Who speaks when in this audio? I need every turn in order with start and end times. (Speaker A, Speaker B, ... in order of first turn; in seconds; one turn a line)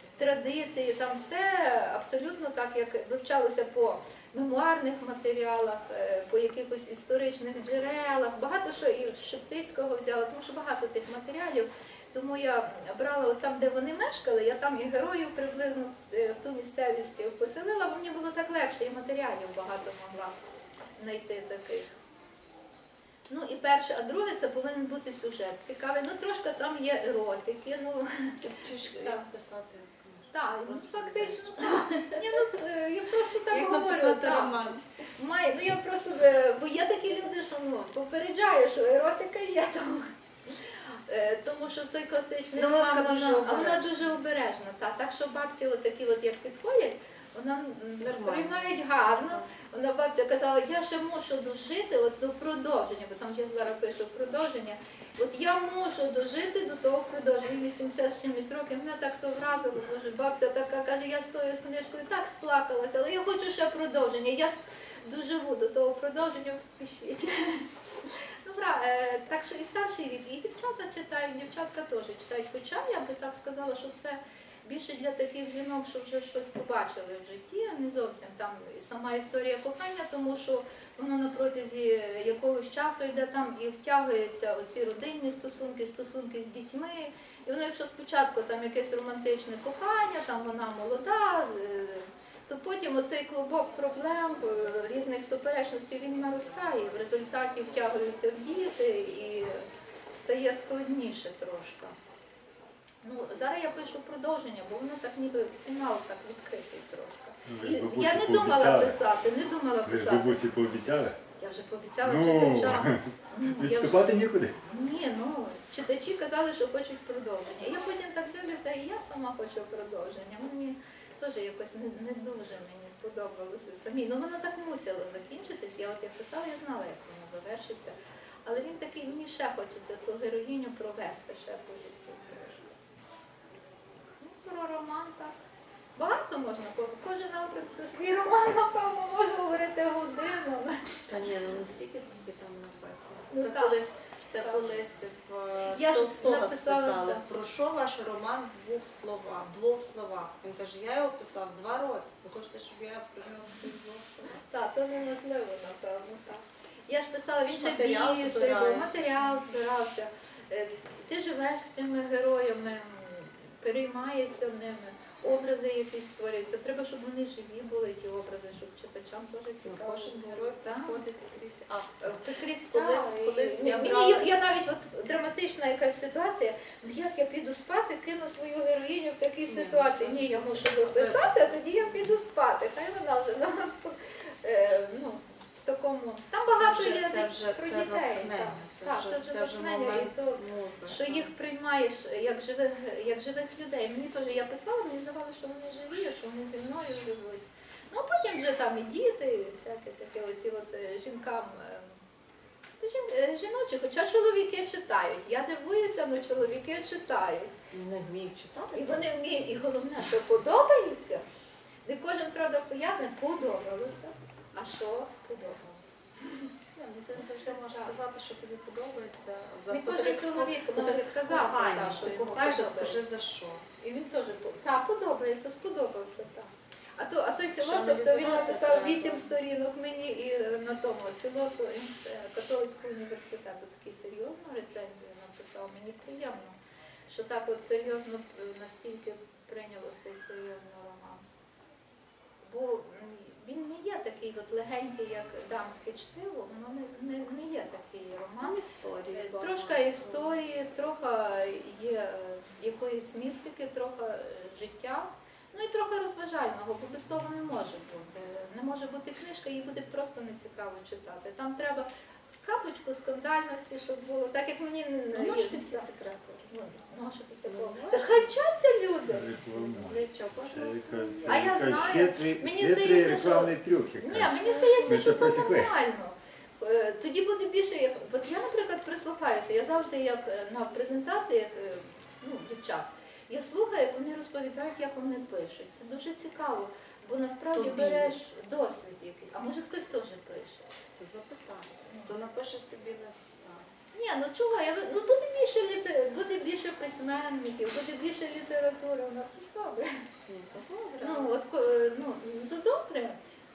Speaker A: 0.2-20.4
Speaker A: 21.0-21.9
Speaker A: 23.3-29.3
Speaker B: 28.4-32.2
Speaker A: 30.3-67.7
Speaker B: 33.5-34.9
Speaker B: 42.5-44.1
Speaker B: 48.0-49.5
Speaker A: 68.4-102.0
Speaker A: 103.0-110.4
Speaker C: 107.5-109.0
Speaker C: 109.8-111.2
Speaker A: 111.4-132.7
Speaker C: 112.0-114.6
Speaker A: 134.2-135.4
Speaker A: 136.0-141.0
Speaker B: 141.1-154.4
Speaker A: 143.3-143.8
Speaker A: 144.4-144.6
Speaker A: 145.7-147.2
Speaker A: 154.4-171.0
Speaker B: 157.4-158.9
Speaker B: 169.6-172.2
Speaker A: 172.0-202.0
Speaker B: 172.7-174.3
Speaker B: 179.5-181.6
Speaker B: 186.6-191.3
Speaker A: 202.8-207.5
Speaker B: 207.7-209.1
Speaker A: 208.7-211.2
Speaker A: 211.8-216.5
Speaker B: 216.8-223.7
Speaker A: 219.7-223.0
Speaker A: 223.8-236.6
Speaker B: 227.6-229.3
Speaker A: 237.1-241.2
Speaker A: 242.4-248.6
Speaker B: 248.4-250.4
Speaker A: 249.1-261.9
Speaker A: 262.4-265.9
Speaker B: 265.1-266.5
Speaker A: 266.5-269.3
Speaker B: 267.5-268.2
Speaker C: 269.1-275.7
Speaker B: 269.6-271.5
Speaker A: 271.3-290.7
Speaker B: 274.2-275.3
Speaker B: 287.5-288.2
Speaker B: 290.9-293.7
Speaker A: 291.9-292.1
Speaker A: 293.9-300.1
Speaker B: 300.3-301.3
Speaker A: 301.0-303.2